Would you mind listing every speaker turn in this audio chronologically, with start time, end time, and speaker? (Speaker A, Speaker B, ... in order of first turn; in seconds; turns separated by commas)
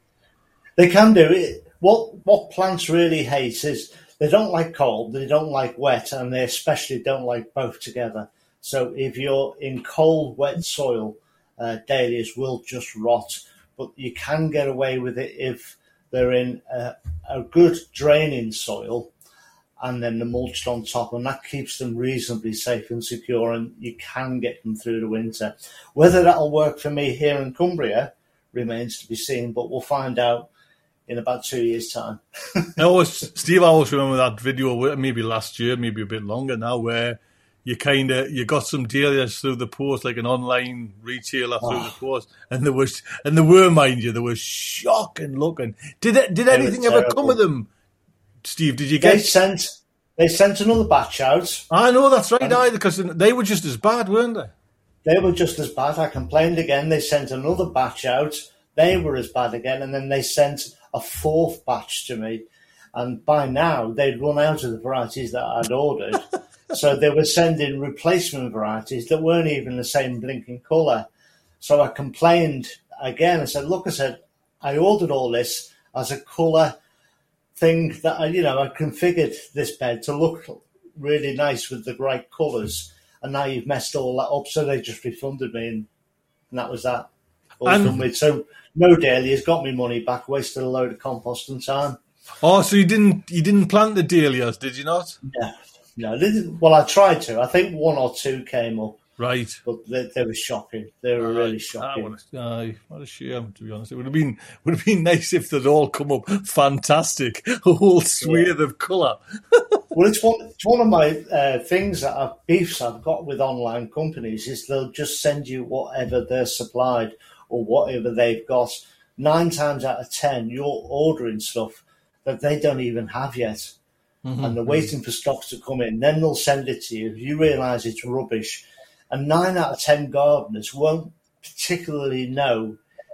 Speaker A: 0.8-19.1, Speaker A: 19.8-30.5, Speaker A: 31.1-32.8, Speaker B: 32.8-47.7, Speaker A: 41.6-41.9, Speaker A: 46.5-47.4, Speaker B: 48.4-49.3, Speaker A: 49.0-51.7, Speaker B: 51.7-54.5, Speaker A: 55.0-62.4, Speaker A: 62.9-71.1, Speaker A: 71.6-76.8, Speaker A: 77.5-85.9, Speaker A: 86.5-87.1, Speaker A: 87.6-92.0, Speaker B: 87.6-88.0, Speaker B: 92.4-95.2, Speaker A: 95.2-99.0, Speaker B: 99.2-99.6, Speaker A: 99.6-102.1, Speaker B: 101.2-109.8, Speaker A: 108.2-108.5, Speaker A: 109.9-123.7, Speaker B: 124.2-124.9, Speaker A: 124.4-132.8